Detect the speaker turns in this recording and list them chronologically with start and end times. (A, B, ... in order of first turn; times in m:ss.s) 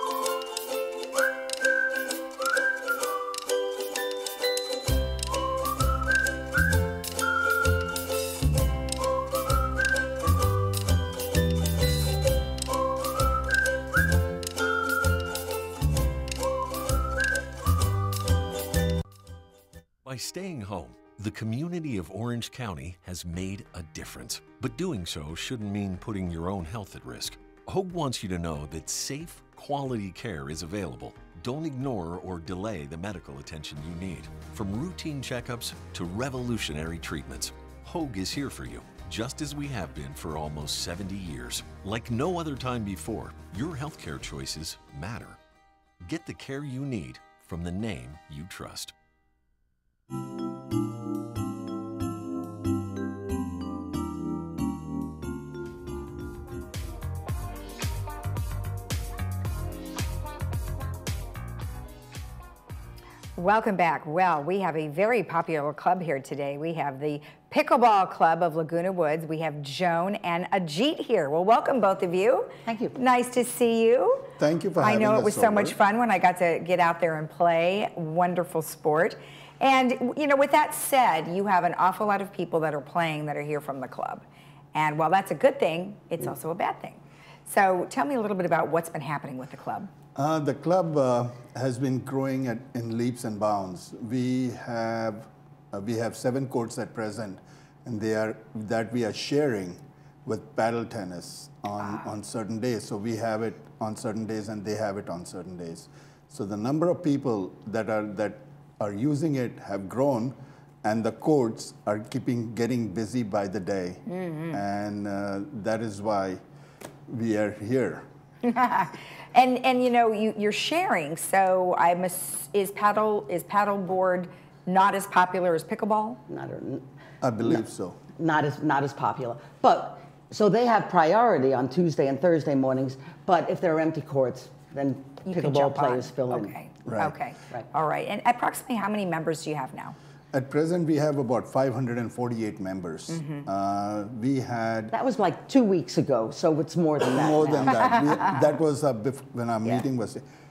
0:20.0-0:45.4 A
0:46.0-0:48.9 A
1:03.4-1:29.9 B
1:12.6-1:13.0 C
1:14.4-1:15.8 D
1:30.2-1:56.4 D
1:41.8-1:42.1 B
1:54.1-1:54.6 B
1:57.1-1:58.0 D
1:58.4-2:06.2 B
2:06.3-2:06.8 C
2:07.2-2:08.0 D
2:08.2-2:16.6 C
2:15.2-2:20.0 B
2:16.8-2:17.1 D
2:20.3-2:24.9 D
2:23.1-2:23.4 B
2:24.9-2:27.8 C
2:27.0-2:30.2 D
2:27.6-2:28.4 B